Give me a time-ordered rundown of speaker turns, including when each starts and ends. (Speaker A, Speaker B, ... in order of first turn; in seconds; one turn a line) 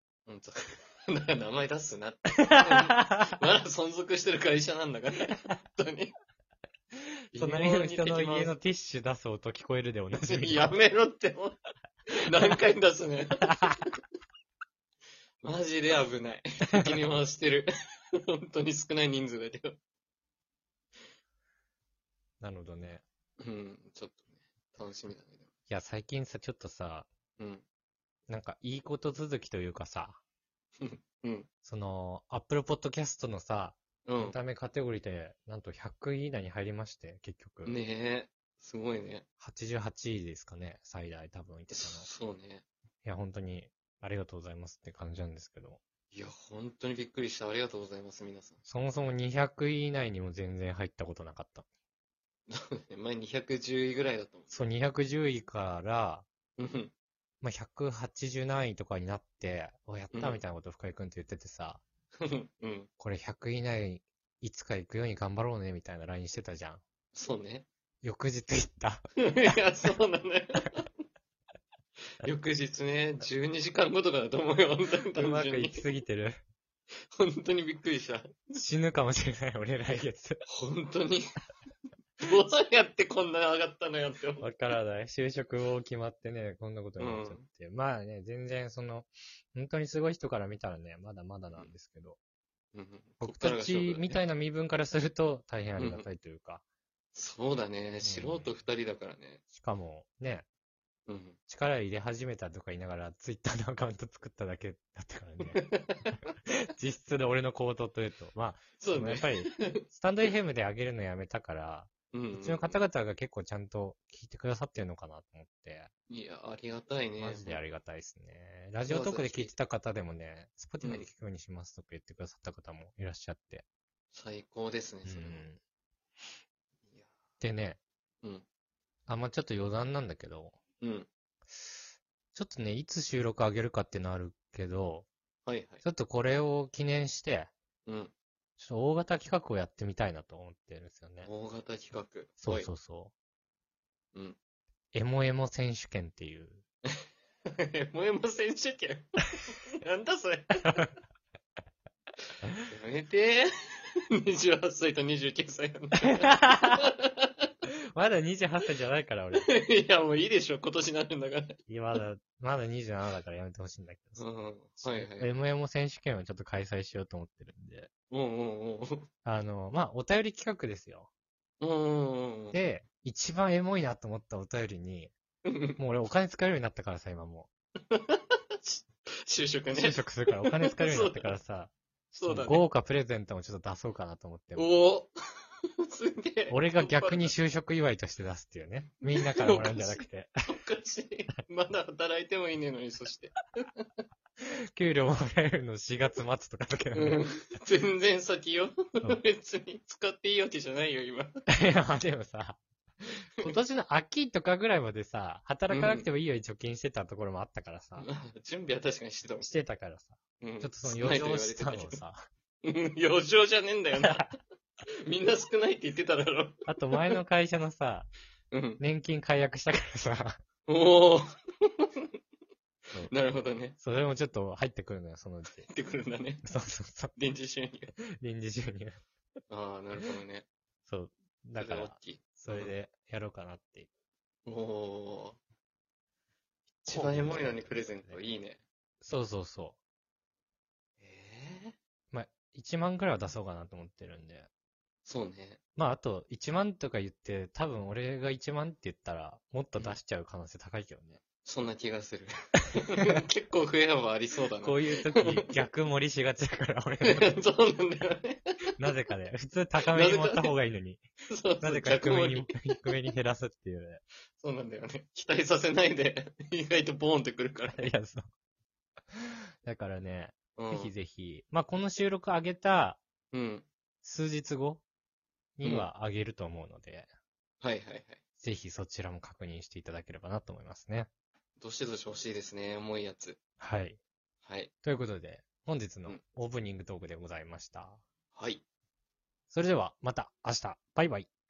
Speaker A: 0.3-6.1
Speaker B: 2.4-3.4
Speaker A: 7.3-8.6
Speaker B: 7.3-10.7
Speaker A: 10.1-11.6
Speaker A: 12.1-13.8
Speaker A: 15.4-19.8
Speaker B: 22.4-23.0
Speaker A: 23.4-25.5
Speaker B: 25.7-27.1
Speaker A: 27.4-27.6
Speaker B: 28.3-30.2
Speaker A: 30.8-31.5
Speaker B: 31.6-37.8
Speaker A: 34.1-34.4
Speaker A: 37.6-39.2
Speaker B: 39.4-42.1
Speaker A: 41.7-42.6
Speaker B: 43.0-45.8
Speaker A: 46.1-48.6
Speaker B: 48.7-51.7
Speaker A: 52.5-54.6
Speaker B: 54.5-56.2
Speaker A: 56.6-56.9
Speaker B: 57.4-61.8
Speaker A: 60.1-60.4
Speaker A: 62.2-62.9
Speaker B: 63.0-66.8
Speaker A: 67.1-67.7
Speaker B: 68.0-69.6
Speaker A: 69.2-70.9
Speaker A: 72.2-75.9
Speaker B: 75.2-76.4
Speaker A: 77.1-78.5
Speaker B: 78.5-80.4
Speaker A: 80.5-81.3
Speaker A: 82.2-84.5
Speaker B: 84.4-92.2
Speaker A: 87.0-87.5
Speaker A: 92.7-94.2
Speaker B: 93.2-96.6
Speaker A: 95.8-96.1
Speaker A: 97.2-99.4
Speaker B: 98.0-98.5
Speaker B: 99.5-100.5
Speaker A: 101.1-101.4
Speaker B: 101.5-105.7
Speaker A: 105.4-106.0
Speaker B: 106.5-115.9
Speaker A: 108.8-109.8
Speaker A: 112.1-112.8
Speaker A: 116.1-117.6
Speaker B: 117.2-123.7
Speaker A: 118.8-119.5
Speaker A: 120.8-121.1
Speaker A: 124.1-125.5
Speaker B: 125.1-125.6
Speaker B: 127.4-127.8
Speaker B: 129.1-130.6
Speaker A: 130.8-131.1
Speaker B: 132.3-135.1
Speaker A: 135.4-135.8
Speaker B: 135.8-137.5
Speaker A: 137.9-138.1
Speaker B: 138.6-141.3
Speaker A: 141.2-142.7
Speaker B: 142.4-143.1
Speaker B: 144.9-146.6
Speaker A: 146.9-150.9
Speaker A: 152.7-157.5
Speaker B: 156.0-156.9
Speaker B: 157.9-159.5
Speaker A: 159.4-161.6
Speaker B: 161.7-164.3
Speaker A: 164.2-165.3
Speaker B: 164.8-167.9
Speaker A: 168.1-169.1
Speaker B: 169.2-171.1
Speaker A: 171.6-172.6
Speaker B: 172.5-175.1
Speaker A: 175.4-175.8
Speaker B: 175.8-177.5
Speaker A: 177.9-181.4
Speaker B: 179.7-184.7
Speaker A: 182.2-182.7
Speaker A: 184.6-185.1
Speaker A: 185.9-187.3
Speaker B: 186.5-190.3
Speaker A: 189.1-193.9
Speaker B: 194.7-197.2
Speaker A: 196.9-201.3
Speaker B: 201.5-202.6
Speaker B: 203.2-208.1
Speaker A: 205.7-206.1
Speaker A: 208.0-209.5
Speaker B: 209.4-212.3
Speaker A: 210.4-212.0
Speaker A: 212.6-214.3
Speaker B: 213.9-214.3
Speaker A: 215.0-217.2
Speaker B: 216.7-218.1
Speaker A: 218.5-218.8
Speaker B: 218.8-220.4
Speaker A: 220.7-222.2
Speaker A: 223.1-223.8
Speaker B: 223.8-225.7
Speaker A: 225.6-226.4
Speaker B: 226.4-227.2
Speaker A: 227.2-227.9
Speaker B: 228.0-229.0
Speaker A: 229.5-230.5
Speaker B: 230.9-233.9
Speaker A: 231.6-232.7
Speaker A: 234.5-235.4
Speaker A: 236.8-238.6
Speaker B: 236.9-238.2
Speaker B: 239.0-239.8
Speaker A: 241.0-241.8
Speaker B: 242.1-244.5
Speaker A: 245.1-245.6
Speaker B: 245.8-251.2
Speaker A: 251.4-255.5
Speaker B: 254.6-257.3
Speaker A: 257.0-258.5
Speaker B: 258.8-261.0
Speaker A: 259.9-260.6
Speaker A: 261.3-262.9
Speaker B: 261.6-264.0
Speaker A: 264.4-267.9
Speaker B: 267.7-268.2
Speaker B: 269.1-273.0
Speaker A: 270.6-270.9
Speaker A: 273.3-273.7
Speaker B: 274.0-274.8
Speaker B: 275.6-277.1
Speaker A: 277.6-278.2
Speaker B: 278.4-281.1
Speaker A: 281.6-283.4
Speaker B: 283.6-284.0
Speaker A: 284.4-284.7
Speaker B: 284.8-288.0
Speaker A: 288.3-288.6
Speaker B: 289.5-291.3